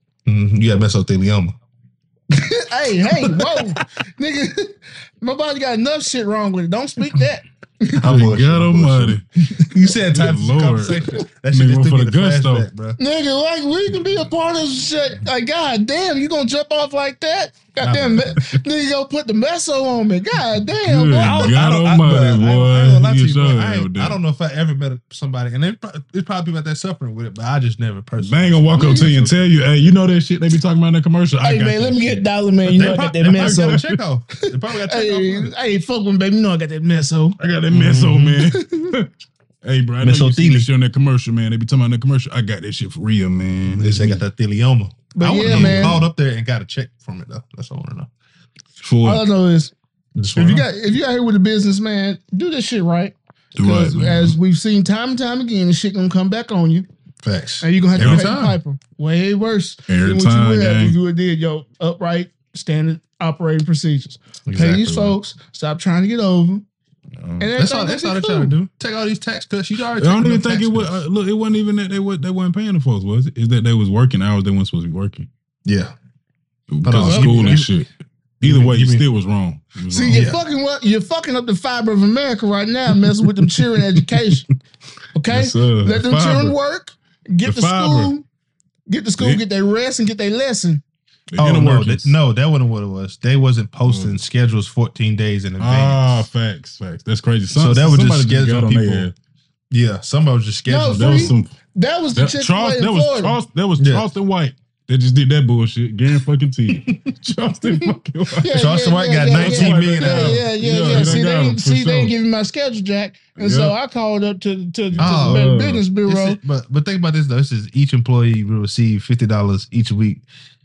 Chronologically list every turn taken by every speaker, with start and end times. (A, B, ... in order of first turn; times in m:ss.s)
0:00.3-0:01.6 A
0:02.3-0:08.1 B
0:03.2-0:03.6 A
0:08.0-0:13.0 A
0:08.0-0:09.2 C
0:10.1-0:12.7 C
0:13.0-0:21.6 B
0:17.8-0:18.3 A
0:20.8-0:24.2 C
0:21.2-0:29.4 A
0:28.2-0:34.0 C
0:28.8-0:29.1 B
0:31.4-0:33.8 B
0:32.7-0:35.5 A
0:34.7-0:37.4 B
0:37.4-0:39.1 C
0:37.7-0:38.5 A
0:38.5-0:38.9 B
0:39.6-0:44.2 C
0:40.0-0:40.7 A
0:43.8-0:48.1 A
0:45.2-0:46.0 B
0:45.4-0:46.1 C
0:48.8-0:49.2 C
0:49.0-0:49.7 B
0:50.2-0:50.7 A
0:50.4-0:56.9 B
0:53.6-0:54.4 C
0:57.2-0:58.6 A
0:57.6-1:06.6 B
0:58.0-0:58.2 C
0:59.9-1:01.0 C
1:04.5-1:04.8 A
1:04.5-1:05.2 C
1:07.2-1:07.5 C
1:07.4-1:08.6 B
1:07.6-1:11.0 A
1:10.0-1:15.3 C
1:15.7-1:15.9 A
1:16.7-1:17.9 C
1:16.8-1:17.7 A
1:17.0-1:17.7 B
1:18.4-1:19.0 A
1:18.4-1:20.3 C
1:19.9-1:24.5 B
1:20.1-1:20.4 A
1:25.2-1:28.2 B
1:25.3-1:26.6 C
1:27.4-1:28.1 C
1:28.9-1:30.8 B
1:31.3-1:32.2 C
1:31.4-1:36.3 A
1:33.8-1:34.2 C
1:35.6-1:39.1 C
1:37.5-1:39.1 A
1:39.7-1:41.4 A
1:40.7-1:43.4 B
1:40.9-1:41.5 C
1:42.2-1:48.6 C
1:43.8-1:44.1 A
1:46.7-1:47.0 A
1:48.4-1:56.4 B
1:48.5-1:51.2 A
1:49.3-1:52.1 C
1:53.4-1:53.8 C
1:54.9-1:55.8 C
1:55.0-1:55.5 A
1:56.0-2:00.2 A